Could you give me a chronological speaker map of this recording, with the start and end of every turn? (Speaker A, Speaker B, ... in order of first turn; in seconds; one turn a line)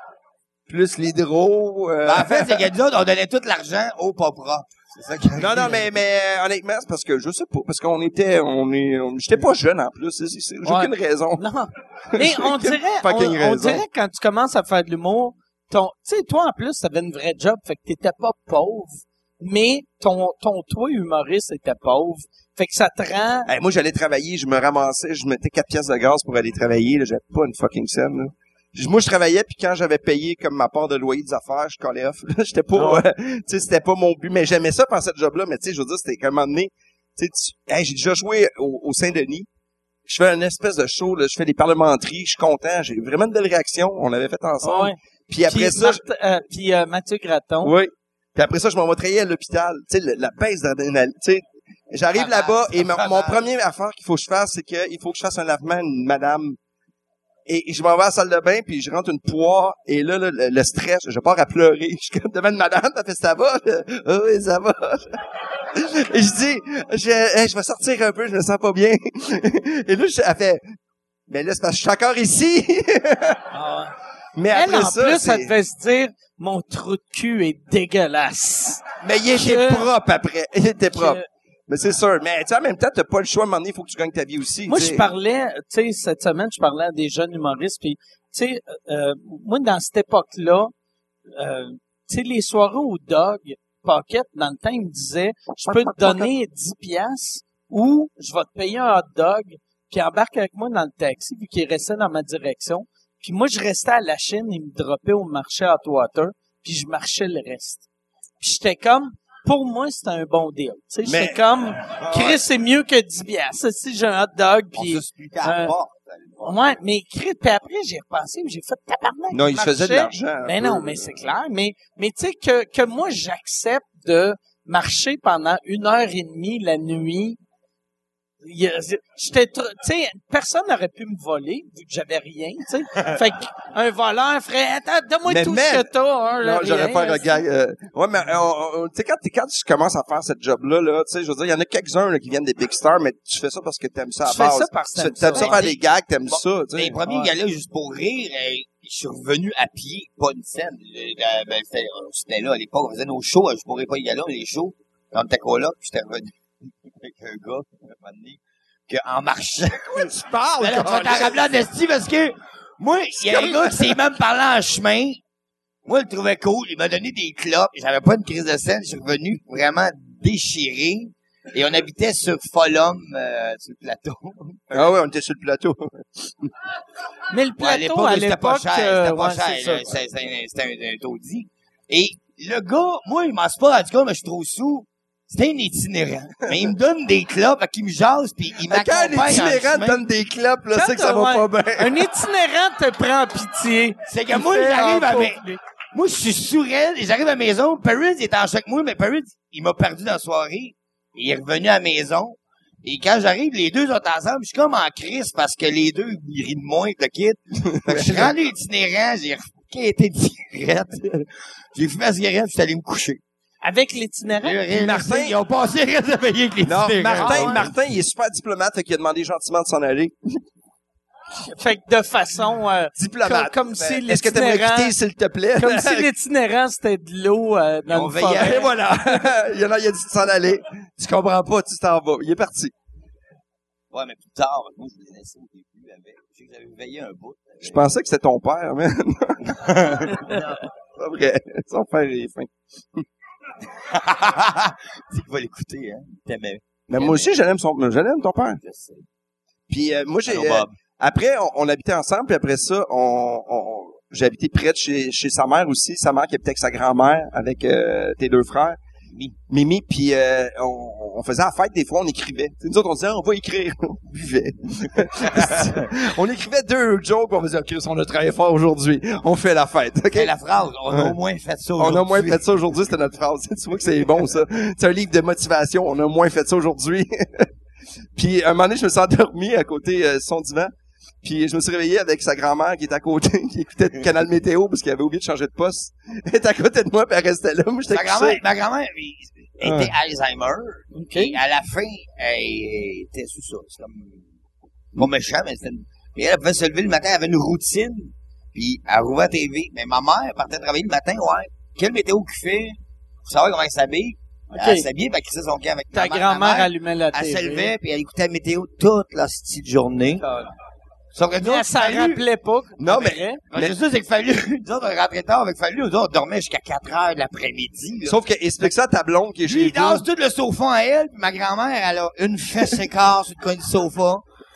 Speaker A: 0.7-2.7
Speaker B: 2.0-5.8
Speaker A: 5.4-11.4
Speaker C: 10.6-23.5
Speaker A: 12.1-13.8
Speaker A: 23.5-39.5
Speaker C: 32.7-33.0
Speaker A: 40.1-46.0
Speaker C: 44.6-47.7
Speaker A: 47.6-56.6
Speaker B: 52.1-53.5
Speaker A: 57.5-65.1
Speaker A: 65.8-70.6
Speaker A: 71.3-73.4
Speaker C: 73.5-73.9
Speaker A: 74.3-75.5
Speaker C: 74.5-79.9
Speaker A: 79.0-85.0
Speaker C: 80.9-81.3
Speaker C: 84.7-90.7
Speaker C: 91.3-107.8
Speaker A: 95.6-96.3
Speaker C: 108.4-115.8
Speaker A: 111.0-111.5
Speaker B: 112.0-112.3
Speaker B: 114.8-116.6
Speaker C: 116.4-127.4
Speaker A: 119.3-121.2
Speaker C: 128.4-137.4
Speaker A: 135.3-147.0
Speaker C: 144.2-145.8
Speaker B: 145.3-145.8
Speaker B: 146.3-156.3
Speaker B: 157.0-165.2
Speaker A: 159.8-161.5
Speaker A: 163.2-164.0
Speaker B: 165.8-174.6
Speaker A: 174.7-176.5
Speaker C: 177.3-179.9
Speaker B: 177.6-190.0
Speaker A: 188.6-192.1
Speaker C: 190.7-195.6
Speaker B: 194.1-195.4
Speaker B: 195.9-213.2
Speaker A: 207.8-208.3
Speaker C: 213.6-214.6
Speaker B: 214.4-217.7
Speaker A: 214.7-215.3
Speaker A: 216.7-220.4
Speaker C: 217.2-217.7
Speaker C: 221.5-224.9
Speaker A: 223.0-226.1
Speaker C: 225.6-228.7
Speaker B: 227.9-228.8
Speaker A: 228.2-232.7
Speaker B: 233.9-237.9
Speaker A: 237.6-239.5
Speaker B: 239.5-240.6
Speaker A: 241.0-243.1
Speaker B: 243.7-247.3
Speaker A: 246.9-248.6
Speaker B: 248.6-249.1
Speaker A: 249.7-258.8
Speaker B: 250.3-250.7
Speaker A: 259.5-270.3
Speaker B: 265.3-265.8
Speaker B: 270.1-272.4
Speaker A: 271.8-277.5
Speaker A: 278.1-280.7
Speaker A: 281.2-288.4
Speaker B: 287.9-294.2
Speaker A: 289.6-289.9
Speaker C: 290.9-291.4
Speaker B: 294.9-310.3
Speaker C: 304.5-304.9
Speaker C: 305.9-307.7
Speaker B: 311.1-312.2
Speaker C: 311.4-313.4
Speaker A: 312.8-313.8
Speaker B: 313.5-318.7
Speaker A: 318.1-320.1
Speaker B: 319.4-324.2